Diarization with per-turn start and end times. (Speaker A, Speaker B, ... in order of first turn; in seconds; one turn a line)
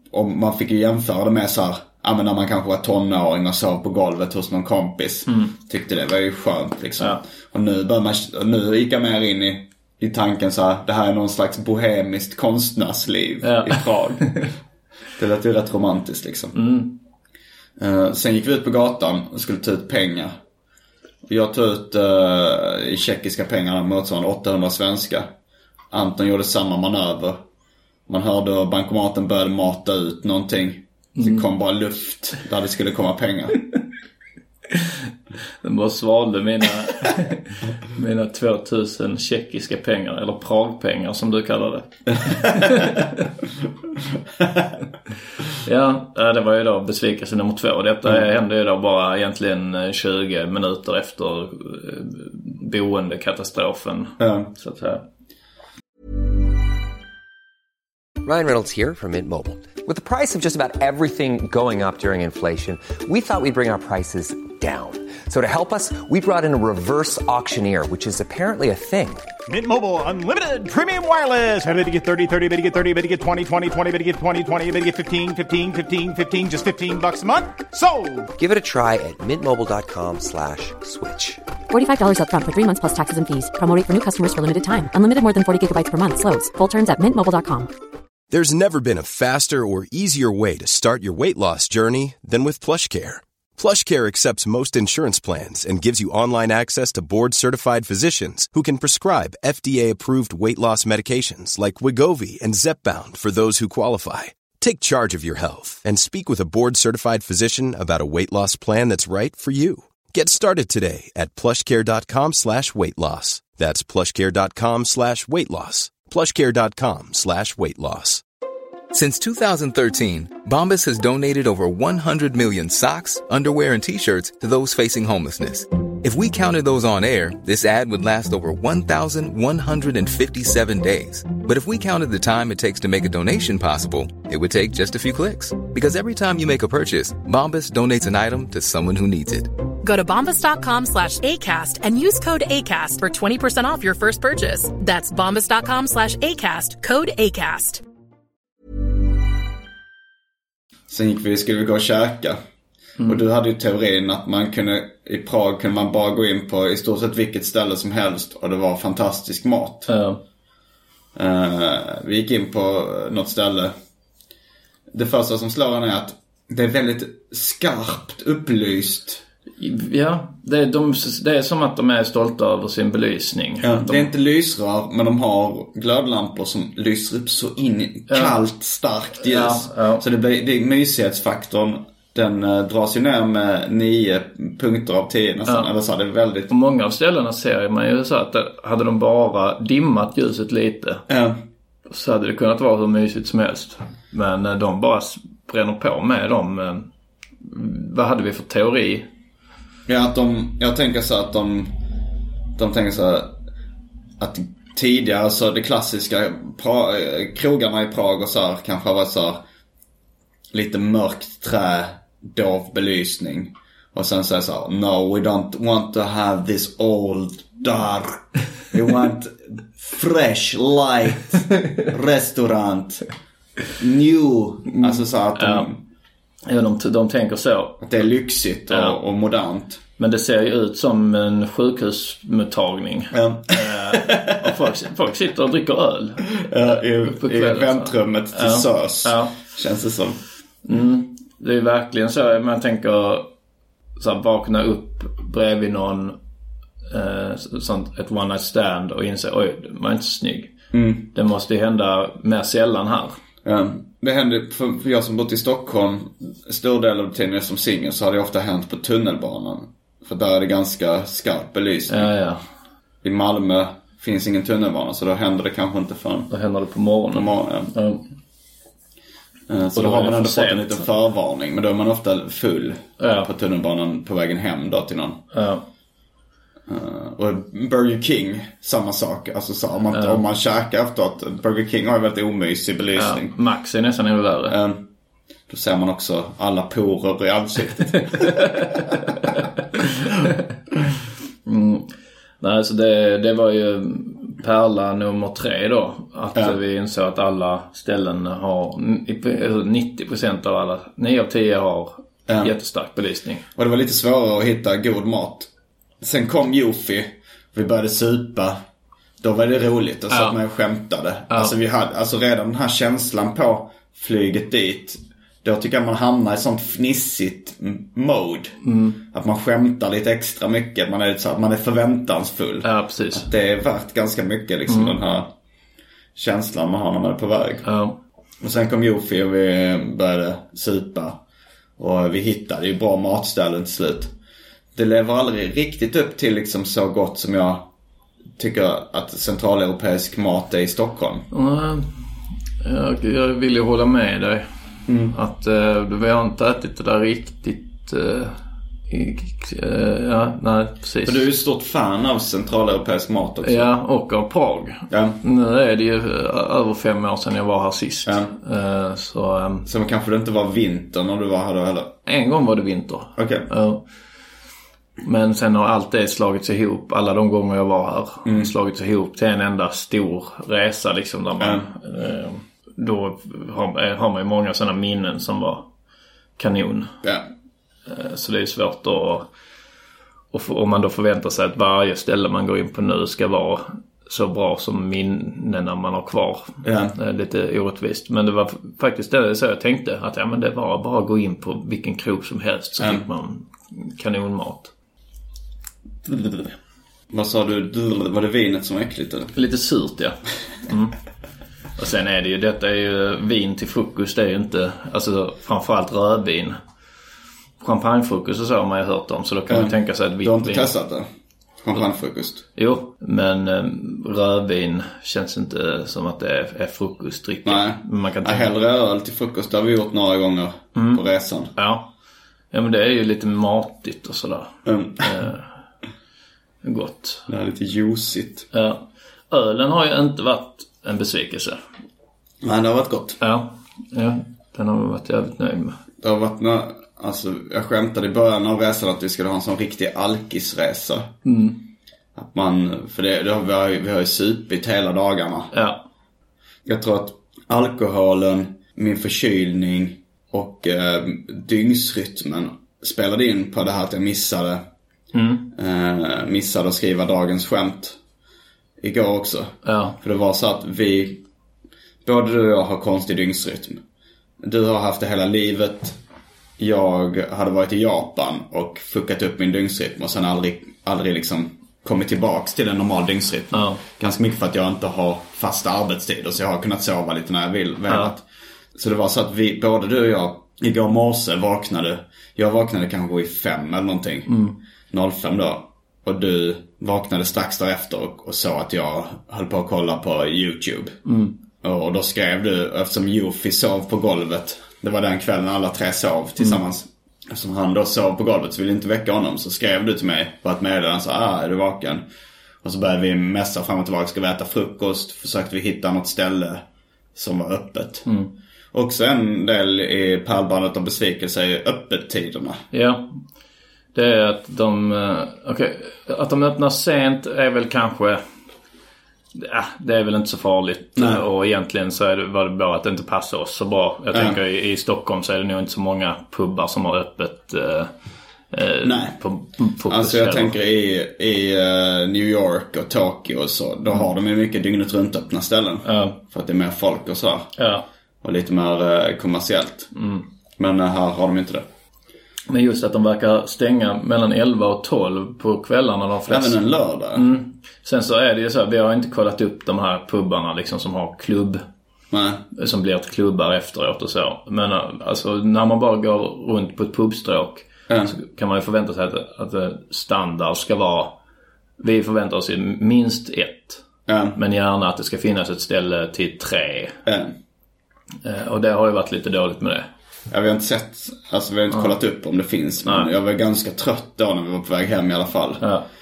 Speaker A: 0.1-14.5
Speaker B: 13.4-14.5
Speaker A: 15.2-16.5
Speaker B: 16.5-16.9
Speaker A: 17.8-20.4
Speaker A: 21.2-25.3
Speaker A: 25.9-27.4
Speaker A: 28.1-33.6
Speaker B: 31.1-31.4
Speaker B: 35.6-43.2
Speaker A: 42.2-42.5
Speaker A: 44.4-44.7
Speaker B: 45.5-55.0
Speaker A: 54.2-54.5
Speaker C: 58.2-69.3
Speaker D: 69.5-78.3
Speaker C: 78.3-81.4
Speaker E: 81.7-87.7
Speaker F: 88.3-118.2
Speaker G: 118.9-139.5
Speaker H: 139.8-147.8
Speaker A: 150.9-152.4
Speaker A: 153.0-159.9
Speaker B: 159.9-160.2
Speaker A: 161.1-163.7
Speaker A: 164.9-169.2
Speaker B: 169.6-174.1
Speaker A: 173.6-186.5
Speaker B: 178.1-178.3
Speaker B: 179.2-180.0
Speaker B: 186.5-191.0
Speaker A: 191.1-191.4
Speaker B: 191.9-196.9
Speaker B: 197.4-199.1
Speaker A: 199.9-201.7
Speaker A: 202.6-203.3
Speaker A: 204.2-209.4
Speaker A: 210.5-223.1
Speaker A: 223.8-225.8
Speaker B: 224.7-225.7
Speaker B: 226.4-227.8
Speaker A: 227.8-229.8
Speaker B: 228.7-228.9
Speaker B: 230.0-239.3
Speaker A: 233.1-234.5
Speaker A: 236.4-240.2
Speaker B: 240.7-243.2
Speaker B: 244.0-246.2
Speaker B: 246.9-250.5
Speaker A: 250.7-251.1
Speaker B: 251.1-253.2
Speaker A: 253.4-262.1
Speaker B: 261.9-262.4
Speaker A: 263.0-266.3
Speaker B: 266.3-268.0
Speaker A: 267.1-267.7
Speaker A: 269.5-275.2
Speaker B: 269.7-270.8
Speaker B: 273.0-273.3
Speaker B: 275.3-275.6
Speaker A: 276.7-283.3
Speaker B: 279.9-280.2
Speaker B: 282.9-284.6
Speaker A: 284.5-284.9
Speaker A: 285.5-288.6
Speaker B: 288.1-289.4
Speaker B: 291.4-291.9
Speaker B: 292.4-303.4
Speaker A: 302.3-302.5
Speaker A: 303.6-305.5
Speaker A: 306.0-308.6
Speaker A: 309.2-318.6
Speaker B: 310.1-310.4
Speaker B: 318.6-319.0
Speaker A: 319.1-325.3
Speaker B: 322.6-323.3
Speaker B: 324.7-324.9
Speaker A: 326.1-327.7
Speaker B: 327.6-327.9
Speaker A: 328.4-331.2
Speaker A: 331.8-334.1
Speaker A: 334.7-337.6
Speaker A: 338.4-341.2
Speaker B: 341.3-342.1
Speaker B: 342.6-344.5
Speaker A: 344.9-345.1
Speaker B: 345.1-351.2
Speaker A: 351.0-353.7
Speaker B: 353.4-359.7
Speaker A: 354.9-355.2
Speaker A: 358.1-358.3
Speaker A: 359.6-361.9
Speaker B: 362.1-363.9
Speaker A: 363.1-363.5
Speaker B: 365.0-375.6
Speaker A: 368.2-368.5
Speaker A: 371.4-371.7
Speaker B: 376.4-376.9
Speaker B: 377.9-379.3
Speaker B: 380.3-394.7
Speaker A: 386.6-386.9
Speaker A: 392.8-393.0
Speaker B: 396.1-396.5
Speaker A: 397.1-399.3
Speaker B: 399.3-401.0
Speaker B: 401.8-406.6
Speaker B: 407.6-410.7
Speaker A: 409.5-411.1
Speaker A: 411.6-412.4
Speaker B: 412.5-418.5
Speaker A: 417.4-421.5
Speaker B: 420.7-421.0
Speaker B: 421.5-421.9
Speaker B: 422.5-425.6
Speaker A: 424.6-425.1
Speaker B: 426.6-427.3
Speaker A: 427.3-428.5
Speaker B: 428.5-431.6
Speaker A: 432.4-433.2
Speaker B: 433.2-435.8
Speaker A: 436.0-441.1
Speaker B: 441.2-441.6
Speaker A: 442.1-445.5
Speaker B: 445.5-445.8
Speaker A: 446.6-454.6
Speaker B: 455.1-455.5
Speaker A: 455.5-458.0
Speaker A: 458.8-461.2
Speaker B: 459.6-460.0
Speaker A: 462.0-463.8
Speaker A: 464.4-466.0
Speaker A: 466.6-478.2
Speaker B: 473.5-473.8
Speaker A: 478.7-484.4
Speaker B: 484.3-484.6
Speaker A: 484.9-491.0
Speaker B: 491.0-491.3
Speaker A: 491.6-502.0
Speaker A: 502.6-506.6
Speaker A: 507.1-508.1
Speaker B: 508.0-508.3
Speaker A: 508.7-512.6
Speaker B: 512.7-513.2
Speaker B: 513.9-518.2
Speaker B: 519.3-527.9
Speaker A: 521.0-521.2
Speaker A: 524.1-524.4
Speaker B: 528.5-530.5
Speaker A: 528.8-529.2
Speaker A: 529.8-537.5
Speaker B: 535.8-536.2
Speaker B: 537.6-537.8
Speaker A: 538.2-539.9
Speaker B: 539.9-540.2
Speaker A: 540.6-541.6
Speaker B: 542.5-546.6
Speaker A: 546.3-547.3
Speaker B: 547.1-551.6
Speaker A: 552.1-552.4
Speaker B: 552.5-561.1
Speaker B: 561.8-563.8
Speaker A: 564.1-564.4
Speaker B: 564.3-567.0
Speaker A: 567.0-567.3
Speaker B: 568.2-569.9
Speaker A: 570.3-575.6
Speaker B: 572.8-573.1